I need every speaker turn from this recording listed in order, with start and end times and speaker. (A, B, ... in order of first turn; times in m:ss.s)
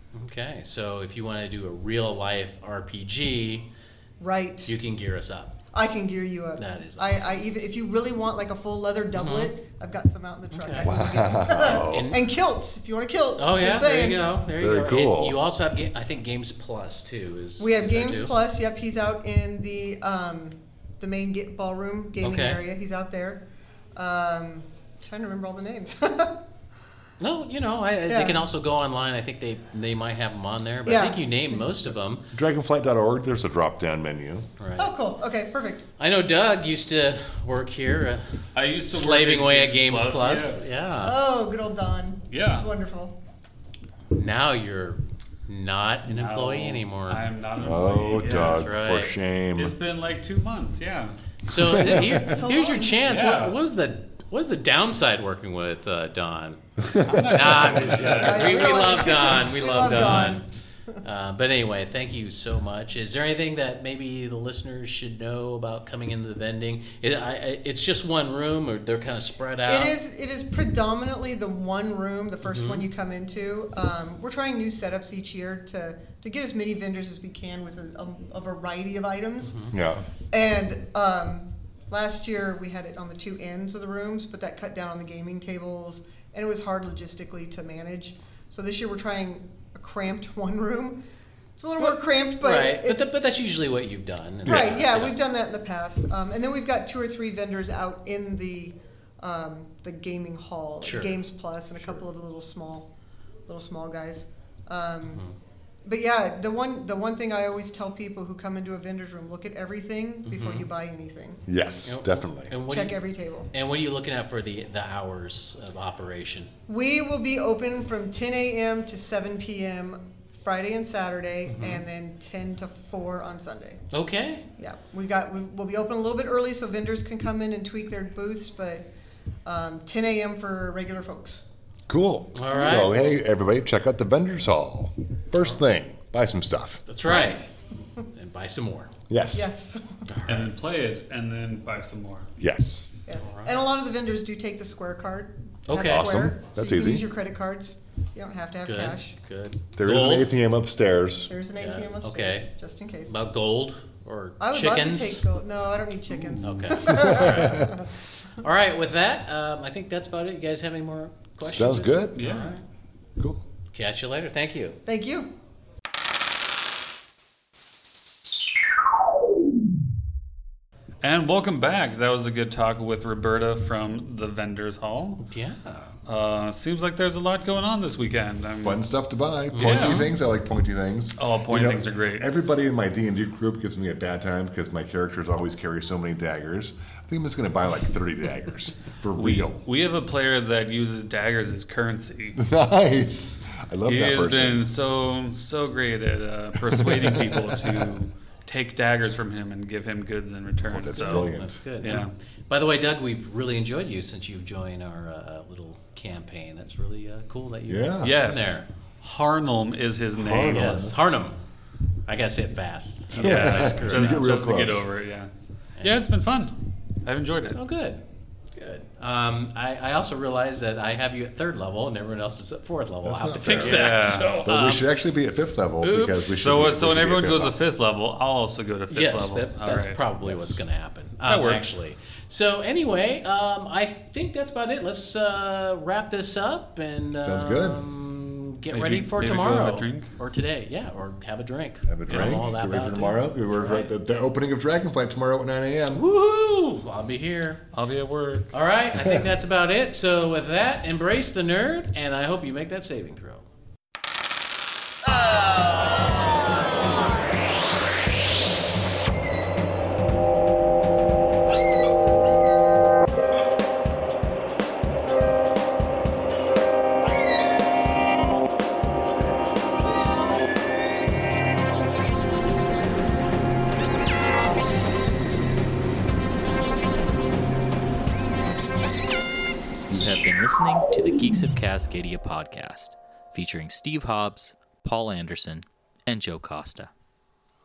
0:00.1-0:03.7 A
0:04.2-0:04.7 B
0:04.6-0:05.6 A
0:05.7-0:14.3 B
0:06.6-0:07.4 A
0:09.1-0:09.5 A
0:10.5-0:10.9 A
0:10.8-0:12.2 C
0:11.8-0:12.2 A
0:13.4-0:18.3 A
0:14.6-0:15.4 C
0:17.6-0:23.4 B
0:22.2-0:22.6 A
0:24.0-0:26.4 B
0:27.2-0:32.2 A
0:28.1-0:28.4 B
0:30.8-0:31.7 B
0:32.3-0:34.5 C
0:34.6-0:34.9 A
0:34.8-0:35.8 B
0:36.0-0:41.2 A
0:38.5-0:40.8 D
0:40.9-0:43.2 B
0:42.3-0:42.7 D
0:44.1-0:47.2 A
0:46.1-0:48.8 D
0:47.6-0:49.8 C
0:48.3-0:49.1 A
0:49.5-0:51.2 D
0:51.5-1:00.5 A
0:51.6-0:52.3 C
0:52.2-0:52.9 B
0:53.0-0:53.6 D
0:56.9-0:59.0 D
0:57.0-0:57.4 C
0:58.2-1:00.4 B
1:01.0-1:09.9 A
1:09.6-1:19.7 B
1:12.4-1:12.8 A
1:19.4-1:19.7 A
1:19.7-1:20.0 C
1:20.3-1:31.0 B
1:31.6-1:33.2 B
1:31.8-1:35.1 A
1:34.4-1:34.7 C
1:34.4-1:42.9 B
1:40.8-1:41.2 A
1:43.5-1:45.2 B
1:45.1-1:45.3 A
1:45.8-1:51.4 B
1:50.2-1:50.7 A
1:51.5-1:52.5 C
1:51.8-1:56.5 A
1:52.6-1:53.5 B
1:56.7-2:03.8 B
2:01.5-2:01.8 A
2:03.9-2:04.4 A
2:04.6-2:08.9 B
2:09.4-2:11.4 B
2:11.9-2:16.8 C
2:12.3-2:13.1 A
2:12.5-2:13.1 B
2:16.9-2:17.4 A
2:17.0-2:17.5 B
2:18.1-2:18.9 A
2:19.1-2:19.5 C
2:19.3-2:20.0 B
2:20.1-2:20.5 A
2:20.3-2:22.3 D
2:22.4-2:22.8 C
2:23.1-2:29.2 B
2:23.1-2:23.6 A
2:25.7-2:26.1 A
2:25.9-2:27.1 C
2:28.6-2:30.3 A
2:29.7-2:31.3 C
2:31.3-2:33.2 B
2:31.6-2:32.5 A
2:33.0-2:35.2 A
2:34.4-2:37.8 B
2:36.2-2:37.8 C
2:36.4-2:37.8 A
2:38.4-2:42.6 A
2:41.4-2:42.2 C
2:42.2-2:42.6 D
2:43.2-2:43.4 C
2:43.7-2:44.8 A
2:44.8-2:45.3 B
2:51.0-2:55.2 D
2:55.2-2:55.9 A
2:56.0-2:58.8 D
2:58.6-3:09.6 C
2:59.5-3:00.1 A
2:59.6-3:00.1 D
3:01.2-3:02.3 D
3:09.1-3:12.4 D
3:12.4-3:14.7 C
3:13.9-3:22.1 D
3:16.7-3:17.6 C
3:20.6-3:21.6 C
3:20.8-3:28.6 A
3:27.7-3:28.2 C
3:28.0-3:30.9 D
3:30.2-3:31.0 C
3:30.4-3:31.4 A
3:32.0-3:34.7 A
3:33.1-3:34.8 C
3:33.1-3:35.3 D
3:35.8-3:37.6 D
3:37.5-3:38.0 A
3:38.5-3:44.5 A
3:43.0-3:47.6 C
3:43.6-3:44.8 D
3:45.8-3:46.4 A
3:46.4-3:50.0 D
3:48.9-4:03.9 A
3:50.2-3:50.6 C
3:51.2-3:51.8 D
3:57.2-3:57.8 C
3:58.7-4:00.1 D
4:01.9-4:06.0 C
4:05.9-4:07.6 A
4:07.7-4:08.5 D
4:08.5-4:13.5 A
4:08.9-4:09.3 C
4:39.9-4:46.9 E